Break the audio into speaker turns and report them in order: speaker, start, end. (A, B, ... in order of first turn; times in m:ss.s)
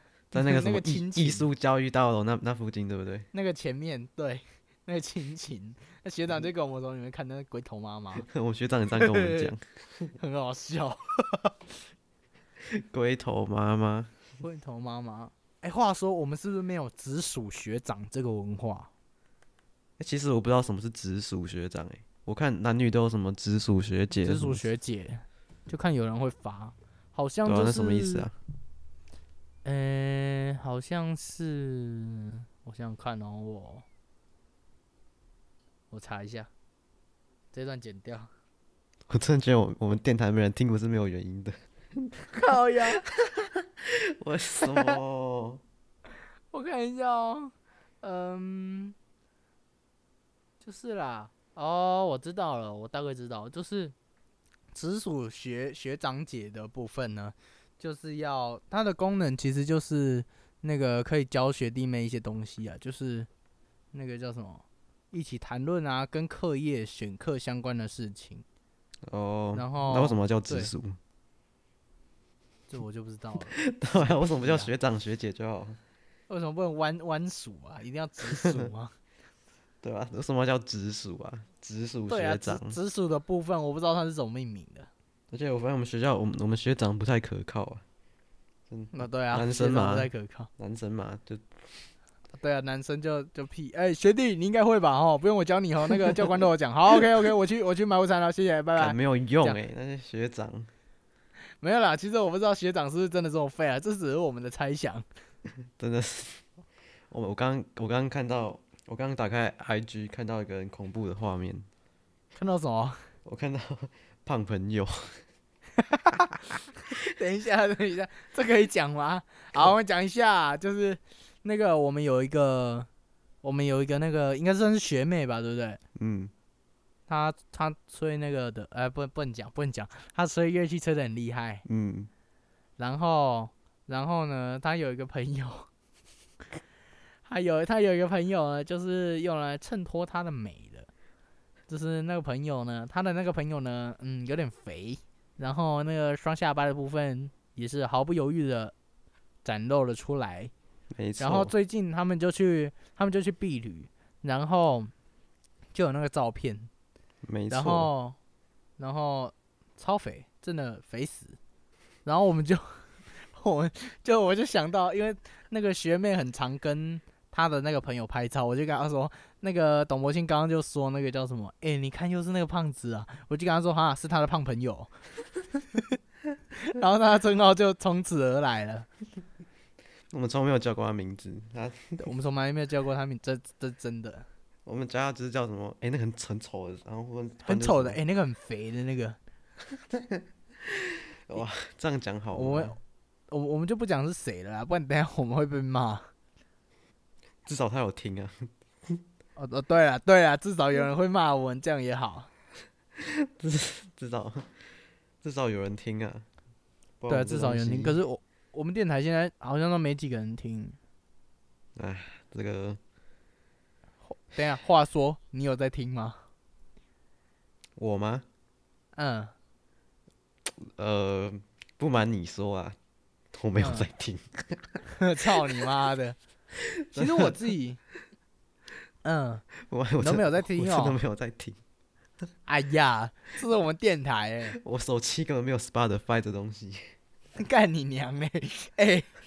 0:00.3-0:01.5 A
0:00.3-0:03.3 B
0:03.3-0:08.3 A
0:08.2-0:10.1 B
0:09.0-0:09.5 A
0:10.2-0:11.6 A
0:12.6-0:14.1 B
0:14.4-0:18.9 A
0:20.0-0:24.6 B
0:24.2-0:28.3 A
0:27.4-0:28.3 B
0:29.6-0:33.8 A
0:35.9-0:36.5 A
0:37.5-0:38.3 A
0:39.1-0:42.1 B
0:42.3-0:43.0 A
0:43.0-0:45.6 B
0:44.7-0:44.9 A
0:46.5-0:48.9 A
0:50.6-0:53.9 A
0:54.7-1:03.3 A
1:03.9-1:08.4 A
1:09.1-1:11.0 B
1:09.5-1:10.7 A
1:12.7-1:14.7 A
1:13.5-1:15.8 B
1:16.3-1:18.9 A
1:18.3-1:18.7 B
1:19.8-1:22.8 B
1:22.1-1:24.9 A
1:25.3-1:27.8 B
1:28.7-1:31.4 B
1:28.9-1:30.5 A
1:32.4-1:39.6 A
1:38.8-1:40.7 B
1:41.6-1:45.0 A
1:45.8-1:46.4 B
1:47.1-1:51.6 B
1:52.4-1:53.0 A
1:53.2-1:55.2 B
1:55.8-2:02.9 A
2:03.4-2:05.8 A
2:06.0-2:06.3 B
2:07.1-2:11.6 A
2:11.6-2:12.1 B
2:12.8-2:15.7 A
2:17.2-2:20.9 A
2:21.7-2:28.7 A
2:29.4-2:30.5 A
2:30.9-2:31.5 B
2:31.2-2:34.9 A
2:35.7-2:36.7 A
2:37.2-2:37.9 B
2:37.5-2:38.2 A
2:38.8-2:41.4 A
2:42.0-2:54.9 A
2:56.5-2:58.9 A
3:00.1-3:02.1 B
3:02.0-3:04.3 A
3:04.6-3:08.0 B
3:07.4-3:09.2 A
3:10.6-3:12.8 B
3:12.3-3:12.8 A
3:13.3-3:16.1 A
3:17.4-3:19.0 B
3:19.4-3:22.3 A
3:23.0-3:24.5 B
3:25.2-3:26.2 B
3:27.0-3:28.0 B
3:27.1-3:30.8 A
3:31.8-3:32.8 B
3:34.0-3:36.2 A
3:37.8-3:38.2 B
3:38.9-3:39.3 A
3:40.5-3:42.8 B
3:43.3-3:44.8 B
3:43.6-3:43.8 A
3:44.9-3:46.2 A
3:46.6-3:47.3 B
3:46.9-3:47.8 A
3:49.0-3:49.5 A
3:49.7-3:51.6 B
3:50.0-3:51.0 A
3:52.5-3:54.6 A
3:54.6-3:56.9 B
3:57.4-3:59.1 A